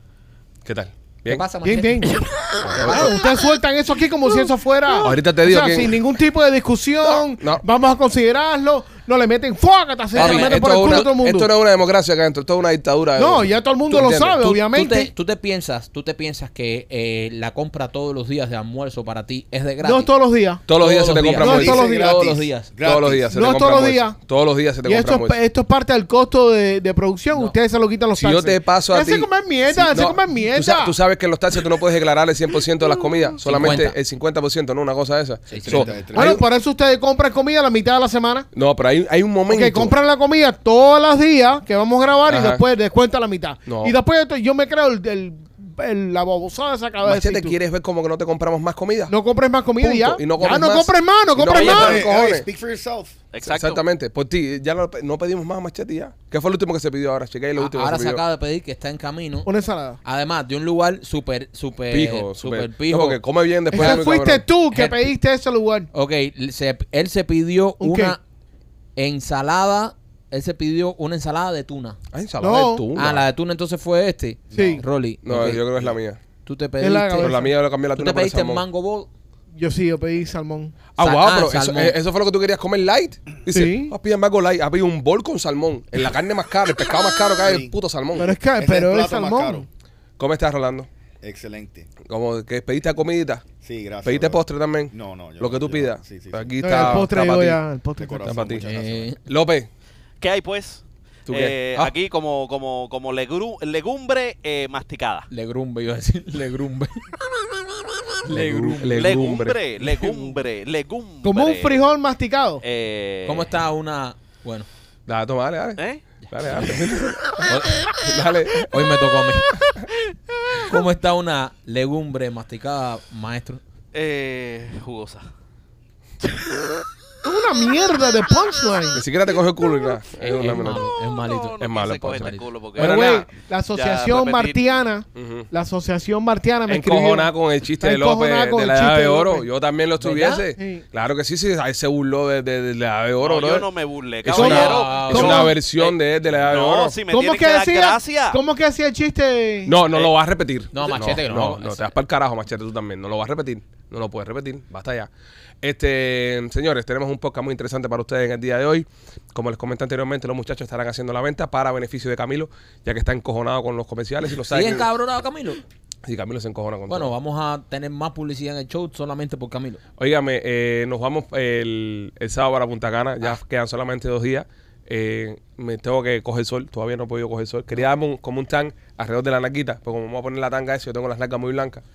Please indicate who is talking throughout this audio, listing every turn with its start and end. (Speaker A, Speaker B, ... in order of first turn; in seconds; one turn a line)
Speaker A: 0.6-1.4
Speaker B: 1.3-3.5
Speaker C: 1.6-11.5
Speaker A: 2.6-3.2
Speaker A: 5.0-6.0
Speaker A: 7.0-7.6
Speaker B: 10.1-11.1
Speaker A: 10.1-14.4
Speaker C: 13.2-15.1
Speaker B: 14.4-20.1
Speaker C: 19.8-20.7
Speaker A: 20.7-21.8
Speaker B: 20.7-22.7
Speaker C: 21.4-22.2
Speaker D: 21.4-23.3
Speaker A: 22.8-25.4
Speaker C: 23.3-24.2
Speaker C: 24.8-30.9
Speaker B: 27.3-27.6
Speaker A: 28.1-36.4
Speaker B: 33.4-34.0
Speaker B: 35.5-36.1
Speaker D: 35.5-36.4
Speaker C: 36.1-38.5
Speaker A: 38.5-39.9
Speaker C: 39.5-47.5
Speaker A: 42.3-42.6
Speaker A: 43.7-44.0
Speaker A: 47.0-49.1
Speaker C: 49.1-52.1
Speaker A: 49.8-52.5
Speaker D: 51.5-53.2
Speaker E: 51.5-51.9
Speaker E: 53.3-53.8
Speaker A: 53.4-58.2
Speaker B: 57.6-59.5
Speaker C: 59.4-60.0
Speaker B: 60.0-63.2
Speaker A: 61.9-64.5
Speaker C: 63.7-65.9
Speaker B: 63.7-64.0
Speaker B: 64.7-65.1
Speaker B: 65.9-68.2
Speaker C: 67.8-68.2
Speaker B: 69.0-72.0
Speaker A: 72.1-73.3
Speaker C: 72.4-72.9
Speaker B: 72.9-75.7
Speaker D: 74.5-74.8
Speaker C: 74.5-74.8
Speaker A: 75.2-76.2
Speaker B: 76.5-79.1
Speaker C: 76.8-77.5
Speaker A: 77.2-78.6
Speaker C: 79.5-80.9
Speaker A: 81.0-88.3
Speaker B: 81.0-82.0
Speaker C: 83.5-83.9
Speaker D: 87.4-87.7
Speaker C: 88.1-89.7
Speaker D: 88.5-89.7
Speaker A: 90.2-90.9
Speaker D: 91.2-91.9
Speaker A: 92.0-93.4
Speaker D: 93.6-97.1
Speaker A: 94.0-97.6
Speaker C: 96.6-98.4
Speaker D: 98.0-99.1
Speaker A: 98.2-98.7
Speaker B: 98.6-99.2
Speaker A: 99.2-99.7
Speaker E: 100.2-105.3
Speaker A: 101.3-101.9
Speaker B: 105.3-107.1
Speaker B: 108.2-109.3
Speaker A: 108.2-109.6
Speaker E: 108.9-111.8
Speaker C: 111.2-112.6
Speaker E: 112.6-113.5
Speaker B: 113.2-114.7
Speaker A: 115.0-118.8
Speaker E: 115.8-116.0
Speaker B: 117.5-117.9
Speaker B: 118.7-119.7
Speaker B: 120.6-123.6
Speaker E: 123.9-125.3
Speaker C: 127.2-129.0
Speaker A: 128.9-130.9
Speaker B: 130.3-132.5
Speaker E: 130.5-134.6
Speaker A: 131.6-133.3
Speaker C: 132.7-139.4
Speaker A: 135.1-135.5
Speaker A: 136.7-143.7
Speaker B: 140.0-140.4
Speaker C: 140.6-140.8
Speaker E: 143.2-148.4
Speaker A: 144.2-147.0
Speaker C: 144.3-145.5
Speaker B: 144.4-145.4
Speaker C: 147.1-149.8
Speaker A: 149.6-155.1
Speaker B: 150.7-151.9
Speaker A: 155.6-164.9
Speaker B: 164.5-165.6
Speaker A: 166.0-167.1
Speaker B: 166.9-169.8
Speaker A: 170.0-181.8